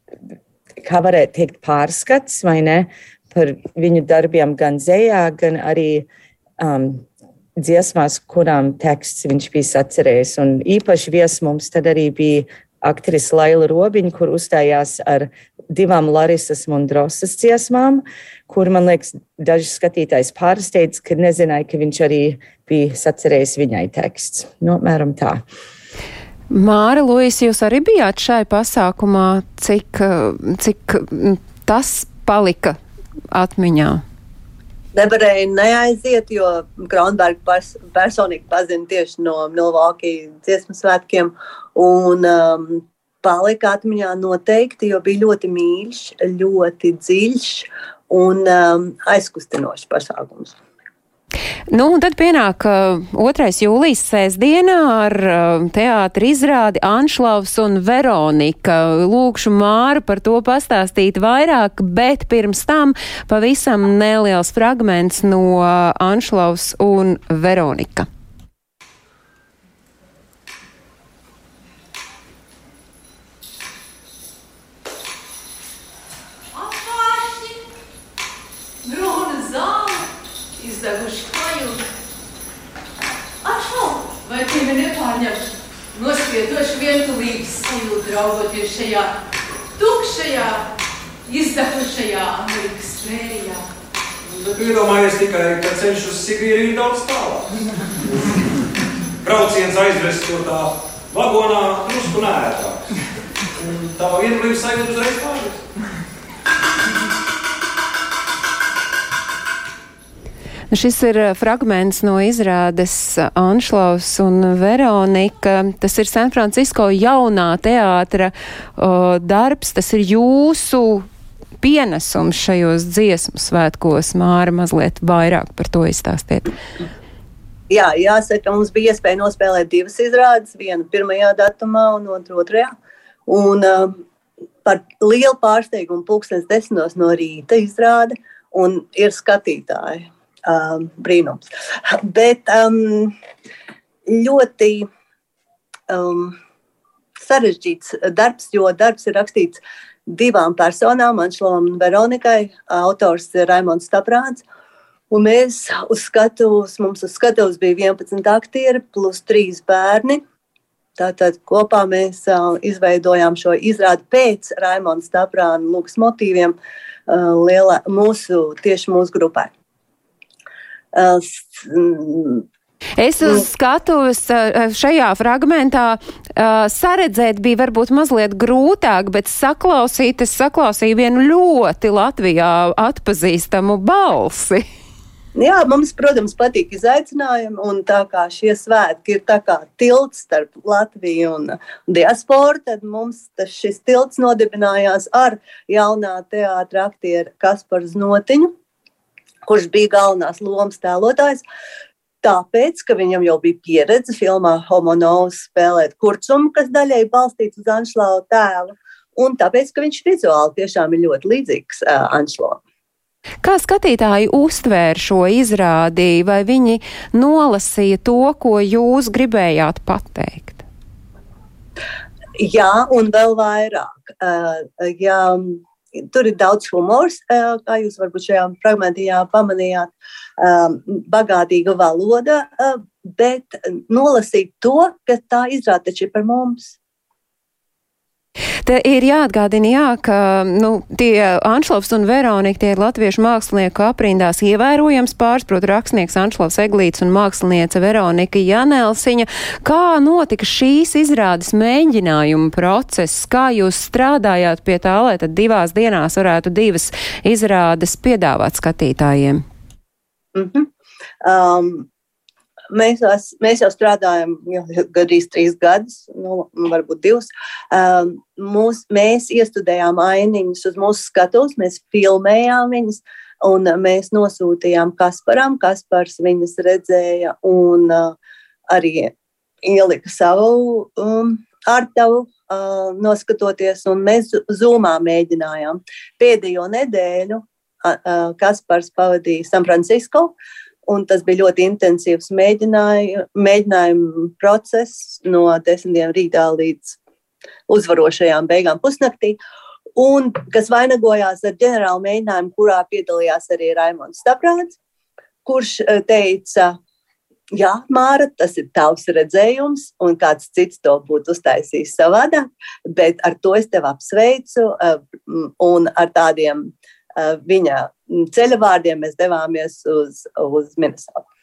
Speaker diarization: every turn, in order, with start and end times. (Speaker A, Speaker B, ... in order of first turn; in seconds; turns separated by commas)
Speaker A: 0.8-6.1, Speaker A: 6.6-25.4, Speaker B: 26.5-32.8, Speaker B: 33.3-34.0, Speaker C: 34.9-50.6, Speaker B: 51.7-68.1, Speaker D: 76.5-77.6, Speaker D: 78.8-81.9, Speaker D: 83.4-89.2, Speaker D: 89.7-90.7, Speaker D: 91.3-93.7, Speaker E: 94.2-97.5, Speaker E: 99.2-102.9, Speaker E: 103.5-105.7, Speaker B: 110.7-121.1, Speaker B: 121.6-126.5, Speaker C: 127.7-132.7, Speaker C: 133.3-134.0, Speaker C: 134.7-143.2, Speaker C: 144.1-144.9, Speaker C: 145.9-146.4, Speaker C: 147.2-154.4, Speaker C: 155.1-160.2, Speaker C: 161.0-166.6, Speaker C: 167.1-169.5, Speaker C: 170.9-172.5, Speaker B: 173.0-184.6, Speaker C: 185.3-198.5, Speaker C: 199.4-201.4, Speaker C: 202.2-212.6, Speaker B: 213.4-220.6, Speaker C: 222.4-236.8, Speaker B: 238.7-259.4, Speaker C: 260.4-260.7, Speaker C: 261.2-261.9, Speaker C: 262.7-278.2, Speaker C: 278.7-290.3, Speaker C: 290.9-297.0, Speaker C: 297.7-299.4, Speaker C: 300.0-304.8, Speaker C: 305.4-306.8, Speaker C: 307.5-321.2